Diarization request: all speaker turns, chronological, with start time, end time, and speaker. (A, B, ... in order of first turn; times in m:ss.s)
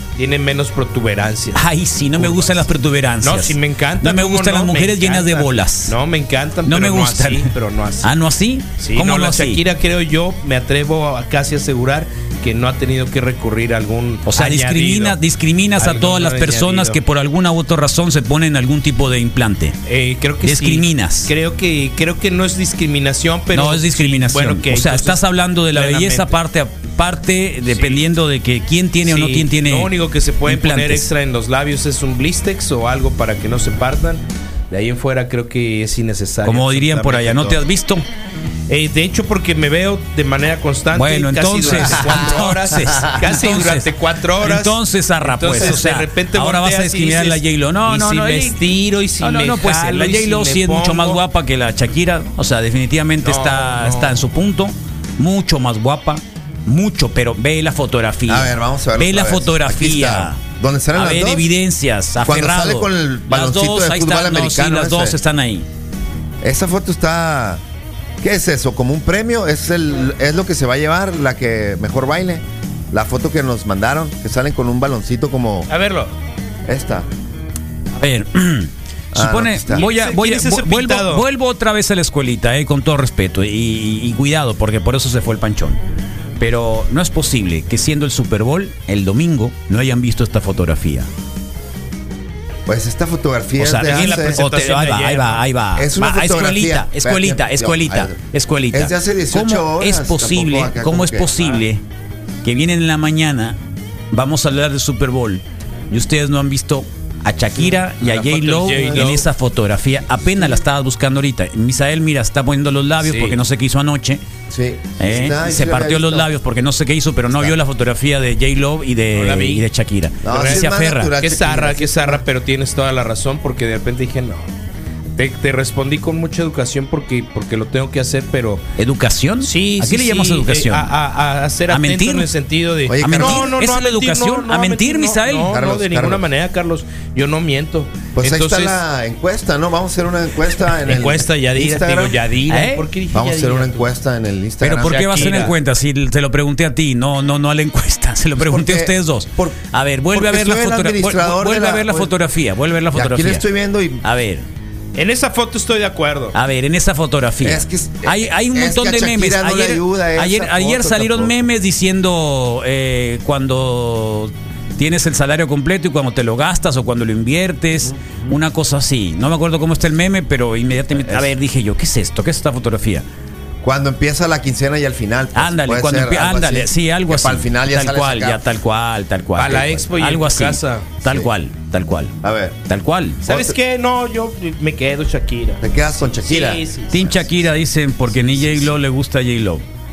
0:00.2-0:01.6 A
0:01.5-0:06.0 B
0:02.2-0:02.7 A
0:03.2-0:08.1 A
0:06.7-0:07.5 B
0:08.0-0:09.6 B
0:08.8-0:15.2 A
0:14.2-0:19.8 B
0:15.8-0:17.0 A
0:19.9-0:26.4 A
0:20.4-0:21.3 B
0:23.5-0:29.9 B
0:27.7-0:28.0 A
0:29.0-0:37.6 A
0:30.4-0:31.1 B
0:36.4-0:38.0 B
0:38.7-0:51.2 A
0:40.9-0:48.6 B
0:41.8-0:42.2 C
0:49.2-1:00.4 B
0:53.2-0:54.2 A
0:58.3-1:01.5 C
1:01.0-1:05.7 B
1:02.2-1:05.2 C
1:06.4-1:07.6 C
1:08.2-1:15.7 C
1:15.7-1:16.1 A
1:16.7-1:17.1 C
1:18.0-1:25.8 B
1:19.1-1:19.8 C
1:19.7-1:21.2 A
1:26.4-1:31.1 B
1:32.7-1:34.5 C
1:33.6-1:35.4 A
1:33.8-1:41.8 B
1:35.8-1:38.2 C
1:38.7-1:41.6 C
1:42.4-1:43.6 B
1:44.1-1:54.2 B
1:48.0-1:49.2 A
1:48.4-1:49.1 C
1:50.2-1:50.6 C
1:53.0-1:53.4 A
1:54.5-1:56.3 C
1:55.0-2:01.2 B
1:59.2-1:59.6 A
2:00.2-2:02.2 C
2:00.3-2:04.5 A
2:05.2-2:08.7 A
2:08.8-2:10.9 B
2:09.4-2:18.8 A
2:11.7-2:12.3 B
2:12.9-2:13.5 C
2:13.0-2:15.6 B
2:15.5-2:16.2 C
2:18.2-2:22.2 C
2:20.8-2:23.9 A
2:22.5-2:22.9 B
2:23.1-2:25.5 C
2:24.6-2:33.4 B
2:24.8-2:25.6 A
2:28.4-2:29.6 C
2:30.1-2:32.1 C
2:32.9-2:34.0 C
2:34.0-2:34.4 B
2:35.0-2:36.4 A
2:36.3-2:53.1 B
2:37.4-2:41.3 C
2:48.0-2:48.3 C
2:51.0-2:51.3 C
2:53.6-2:58.4 C
2:55.4-3:02.2 B
2:59.4-3:00.9 A
3:02.2-3:02.6 C
3:02.7-3:03.2 B
3:03.3-3:05.6 A
3:03.3-3:03.5 C
3:05.6-3:07.1 C
3:06.2-3:07.2 A
3:06.9-3:09.6 B